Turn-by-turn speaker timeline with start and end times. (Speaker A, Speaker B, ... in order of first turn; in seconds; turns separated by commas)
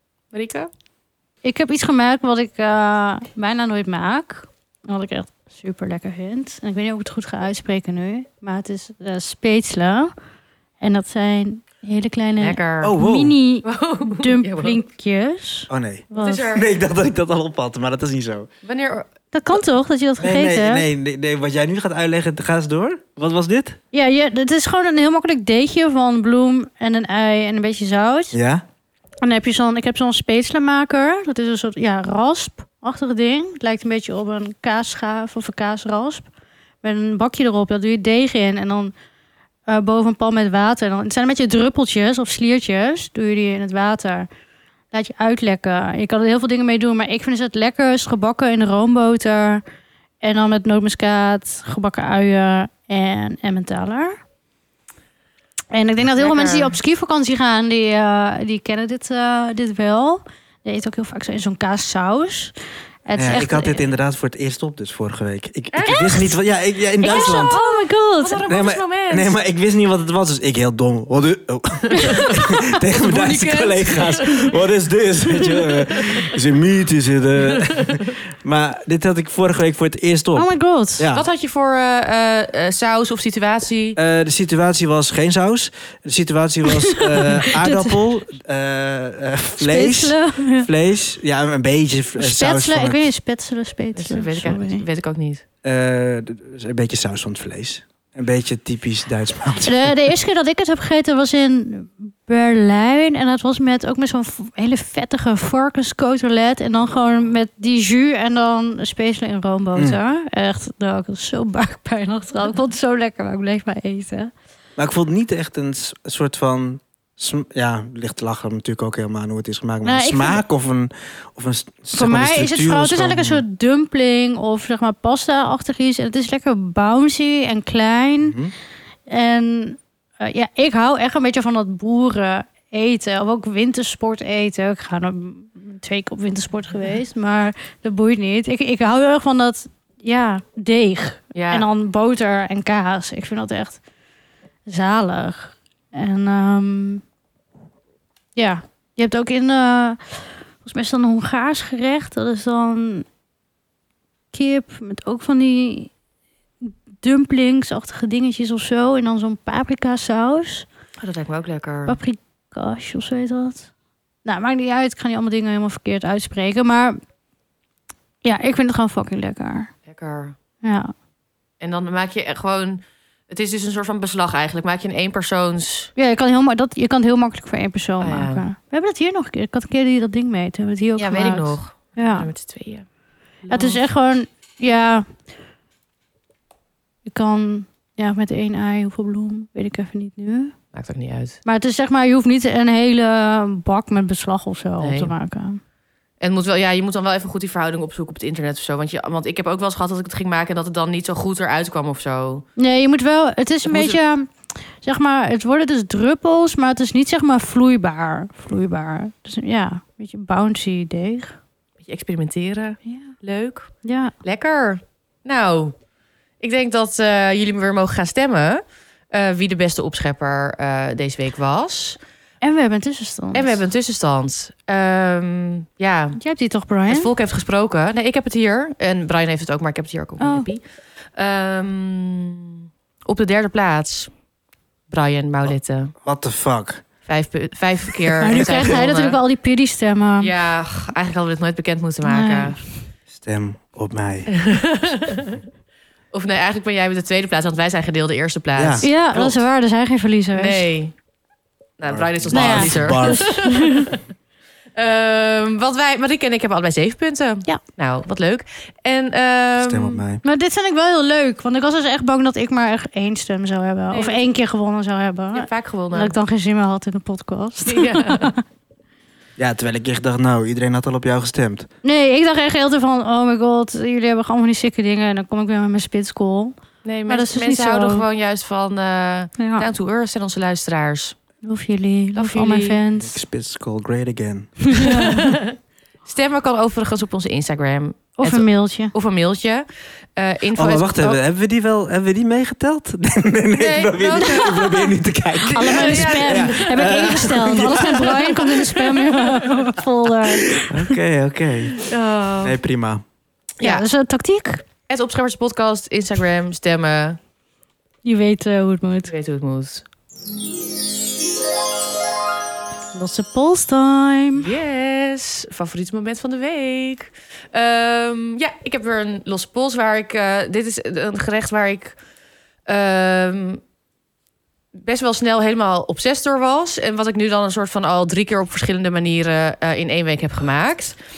Speaker A: 0.3-0.7, Speaker B: 1.4-10.1, Speaker B: 10.8-16.5, Speaker A: 12.4-12.9, Speaker C: 12.8-13.3, Speaker A: 13.6-14.8, Speaker C: 15.7-18.5, Speaker A: 16.1-16.7, Speaker A: 18.6-19.1, Speaker B: 19.3-20.9, Speaker C: 20.2-23.8, Speaker B: 23.9-28.3, Speaker C: 28.3-28.6, Speaker B: 29.2-36.3, Speaker B: 36.8-38.9, Speaker B: 39.7-44.3, Speaker B: 44.9-49.6, Speaker B: 50.2-54.2, Speaker B: 55.7-63.8, Speaker A: 56.2-56.7, Speaker C: 63.1-67.6, Speaker A: 65.7-66.3, Speaker B: 65.8-66.3, Speaker B: 67.0-68.4, Speaker A: 67.0-69.3, Speaker C: 68.5-81.2, Speaker A: 71.9-74.6, Speaker A: 76.0-76.3, Speaker A: 77.4-78.1, Speaker B: 80.3-81.1, Speaker A: 81.1-84.0, Speaker C: 84.0-93.1, Speaker B: 86.7-88.0, Speaker B: 89.6-90.7, Speaker B: 92.2-94.8, Speaker A: 94.0-95.4, Speaker C: 95.6-99.9, Speaker B: 99.6-114.3, Speaker C: 114.8-123.4, Speaker B: 119.8-120.4, Speaker B: 121.9-128.4, Speaker C: 128.2-128.5, Speaker B: 129.1-143.8, Speaker A: 141.3-141.7, Speaker B: 144.7-147.0, Speaker B: 148.3-153.1, Speaker B: 154.3-155.9, Speaker B: 156.6-160.7, Speaker A: 161.0-162.0, Speaker B: 161.9-163.7, Speaker B: 164.2-167.0, Speaker B: 168.2-169.7, Speaker A: 169.8-170.3, Speaker B: 170.6-170.9, Speaker A: 171.6-175.9, Speaker B: 176.0-182.3, Speaker A: 178.0-178.4, Speaker A: 180.9-182.8, Speaker A: 183.4-183.8, Speaker B: 183.5-185.1, Speaker B: 187.0-190.5, Speaker A: 190.7-191.4, Speaker B: 191.4-195.6, Speaker A: 194.8-195.1, Speaker A: 196.2-202.4, Speaker B: 202.6-211.4, Speaker A: 203.6-204.0, Speaker A: 211.8-215.7, Speaker B: 212.8-213.1, Speaker B: 213.8-214.1, Speaker A: 216.4-222.0, Speaker B: 222.4-223.6, Speaker A: 223.3-226.2, Speaker B: 226.2-227.1, Speaker A: 226.9-230.6, Speaker B: 230.2-230.5, Speaker A: 231.2-234.1, Speaker A: 234.9-235.9, Speaker C: 235.4-236.8, Speaker A: 237.1-239.2, Speaker B: 238.2-240.3, Speaker C: 238.3-238.6, Speaker A: 240.2-242.6, Speaker B: 242.0-242.6, Speaker C: 243.1-244.3, Speaker A: 244.3-245.3, Speaker A: 246.1-249.4, Speaker C: 248.5-248.9, Speaker B: 248.8-250.7, Speaker A: 250.3-250.9, Speaker A: 251.8-254.0, Speaker C: 251.9-253.4, Speaker B: 252.3-253.9, Speaker A: 254.8-260.0, Speaker C: 259.6-260.2, Speaker B: 260.2-268.4, Speaker A: 263.9-264.2, Speaker A: 265.3-266.2, Speaker A: 267.6-268.3, Speaker C: 269.4-271.7, Speaker B: 271.8-276.5, Speaker A: 276.8-281.2, Speaker B: 277.1-278.0, Speaker B: 279.4-279.7, Speaker B: 281.4-283.2, Speaker A: 282.1-282.8, Speaker C: 283.0-284.9, Speaker B: 284.6-285.4, Speaker A: 284.8-289.6, Speaker B: 288.2-288.9, Speaker A: 290.1-291.2, Speaker C: 290.6-298.4, Speaker A: 293.6-294.7, Speaker B: 294.1-294.9, Speaker B: 295.4-300.9, Speaker A: 295.5-299.7, Speaker C: 300.7-301.8, Speaker A: 301.8-302.6, Speaker C: 302.4-303.0, Speaker A: 303.6-303.9, Speaker B: 303.6-304.6, Speaker A: 304.9-307.2, Speaker B: 308.0-309.1, Speaker A: 309.1-309.8, Speaker B: 312.9-314.6, Speaker A: 314.4-322.0, Speaker A: 322.6-323.6, Speaker A: 324.7-330.9